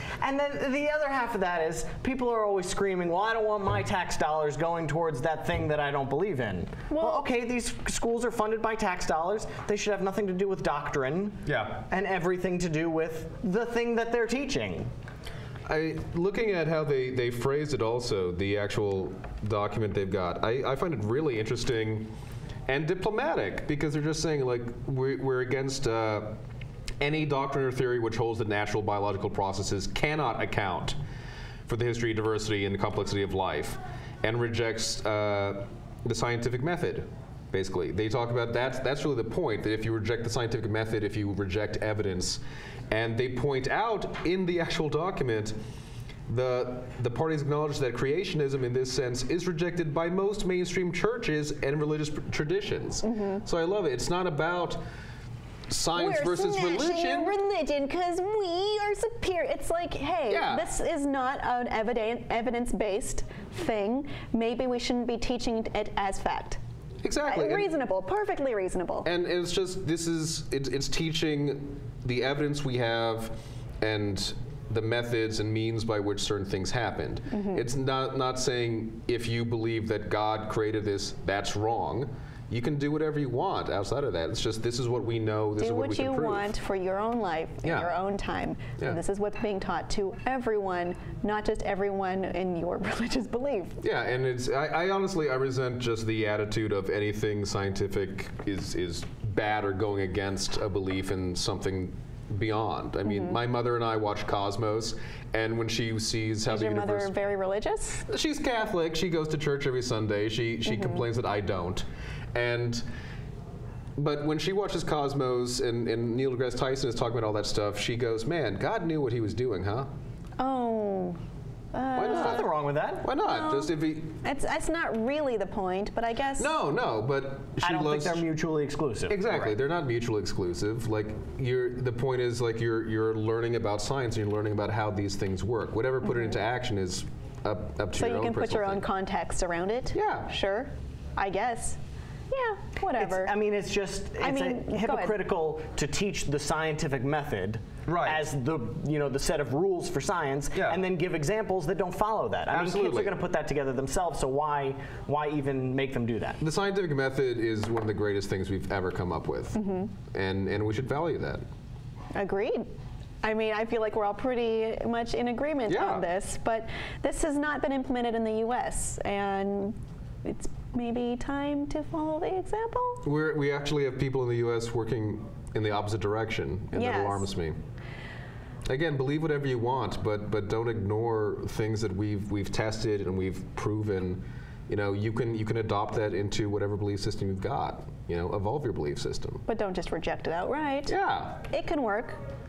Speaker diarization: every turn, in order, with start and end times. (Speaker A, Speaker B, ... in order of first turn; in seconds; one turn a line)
Speaker A: 0.2-14.9
Speaker B: 6.9-7.2
Speaker C: 11.4-11.8
Speaker C: 15.7-22.1
Speaker C: 22.7-26.4
Speaker C: 27.0-31.0
Speaker C: 31.6-45.5
Speaker C: 46.3-54.8
Speaker B: 53.0-53.4
Speaker C: 55.7-57.3
Speaker B: 55.9-66.6
Speaker C: 60.3-60.7
Speaker C: 67.0-67.7
Speaker B: 67.3-69.1
Speaker C: 69.0-86.5
Speaker B: 77.3-77.6
Speaker B: 85.6-93.8
Speaker C: 87.6-87.9
Speaker C: 93.8-107.1
Speaker B: 103.1-103.3
Speaker B: 106.5-108.0
Speaker C: 108.1-112.8
Speaker B: 110.6-111.0
Speaker C: 114.0-119.9
Speaker B: 120.4-121.2
Speaker B: 121.7-122.5
Speaker C: 121.9-122.5
Speaker A: 122.0-123.0
Speaker C: 123.0-124.2
Speaker B: 123.2-126.5
Speaker C: 126.4-128.2
Speaker A: 127.6-129.5
Speaker C: 129.1-138.8
Speaker B: 136.1-136.3
Speaker B: 137.9-141.8
Speaker C: 139.9-140.3
Speaker B: 142.3-143.3
Speaker A: 143.0-156.4
Speaker B: 144.2-145.1
Speaker C: 147.8-148.2
Speaker C: 150.5-150.8
Speaker C: 152.5-153.1
Speaker C: 156.4-159.6
Speaker B: 159.5-159.9
Speaker C: 160.1-161.4
Speaker B: 162.1-162.7
Speaker B: 163.2-173.0
Speaker C: 165.7-166.0
Speaker C: 173.0-177.5
Speaker B: 176.7-177.3
Speaker C: 178.7-189.4
Speaker B: 189.4-192.2
Speaker C: 190.9-191.3